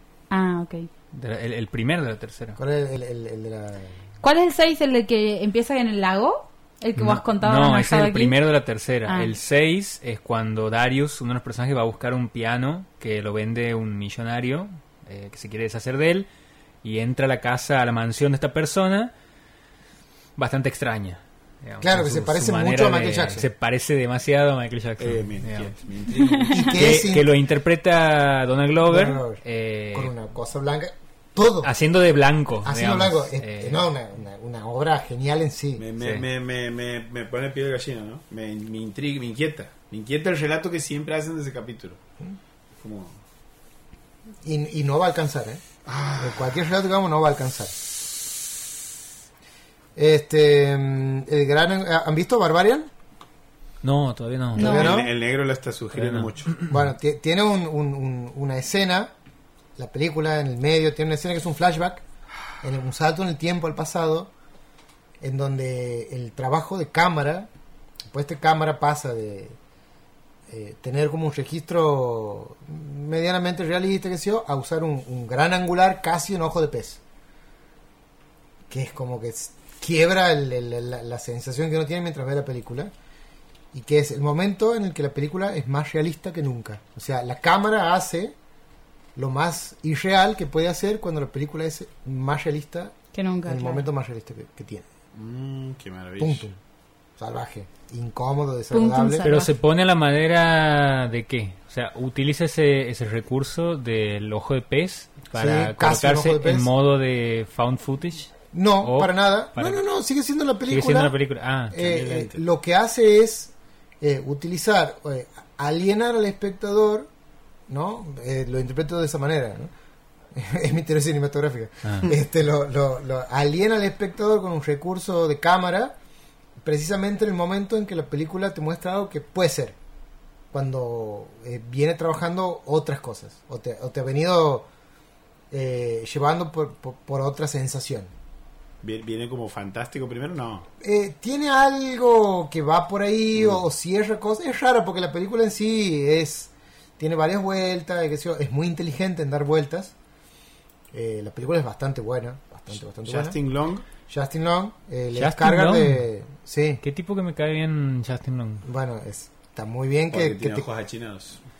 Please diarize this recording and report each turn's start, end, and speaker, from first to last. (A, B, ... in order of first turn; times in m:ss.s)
0:00.3-0:00.9 A
0:01.1-0:02.6 B
0:02.6-0:04.0 C
0:04.2-0:08.4 A
0:07.0-0:16.3 B
0:09.1-0:09.3 A
0:16.8-0:19.1 B
0:20.4-0:25.7 B
0:21.8-0:23.5 C
0:25.0-0:27.1 D
0:26.2-0:26.6 A
0:26.5-0:27.3 C
0:26.6-0:30.1 B
0:28.8-0:29.4 C
0:29.9-0:31.7 C
0:31.6-0:33.8 B
0:32.6-0:35.9 C
0:35.8-0:42.0 D
0:36.0-0:36.3 B
0:42.8-0:43.2 D
0:44.4-0:45.6 C
0:45.9-0:46.7 D
0:46.2-0:47.8 C
0:50.0-0:52.9 C
0:53.8-0:54.8 B
0:54.6-0:55.0 A
0:54.6-0:55.2 C
0:54.6-0:56.6 D
0:55.9-0:56.7 B
0:56.7-0:59.1 C
0:59.8-1:02.0 C
1:02.6-1:04.3 C
1:05.2-1:07.5 C
1:08.1-1:09.6 C
1:10.5-1:17.0 C
1:18.7-1:22.9 C
1:23.7-1:28.4 C
1:29.2-1:32.9 C
1:33.1-1:33.8 A
1:33.5-1:34.9 C
1:35.1-1:36.4 D
1:36.2-1:36.6 C
1:37.2-1:39.3 C
1:38.7-1:39.5 A
1:39.2-1:49.8 B
1:45.4-1:46.7 C
1:48.5-1:51.2 C
1:50.7-1:51.8 B
1:51.7-1:57.1 C
1:51.8-1:52.4 D
1:57.7-1:59.7 C
2:00.3-2:06.0 C
2:01.8-2:02.1 B
2:06.6-2:09.8 C
2:10.5-2:14.7 C
2:15.5-2:18.1 C
2:18.8-2:20.7 D
2:20.8-2:29.9 C
2:30.9-2:33.4 C
2:33.0-2:33.8 D
2:34.1-2:36.8 C
2:35.1-2:36.0 B
2:36.8-2:38.6 B
2:38.6-2:40.6 C
2:40.1-2:41.4 D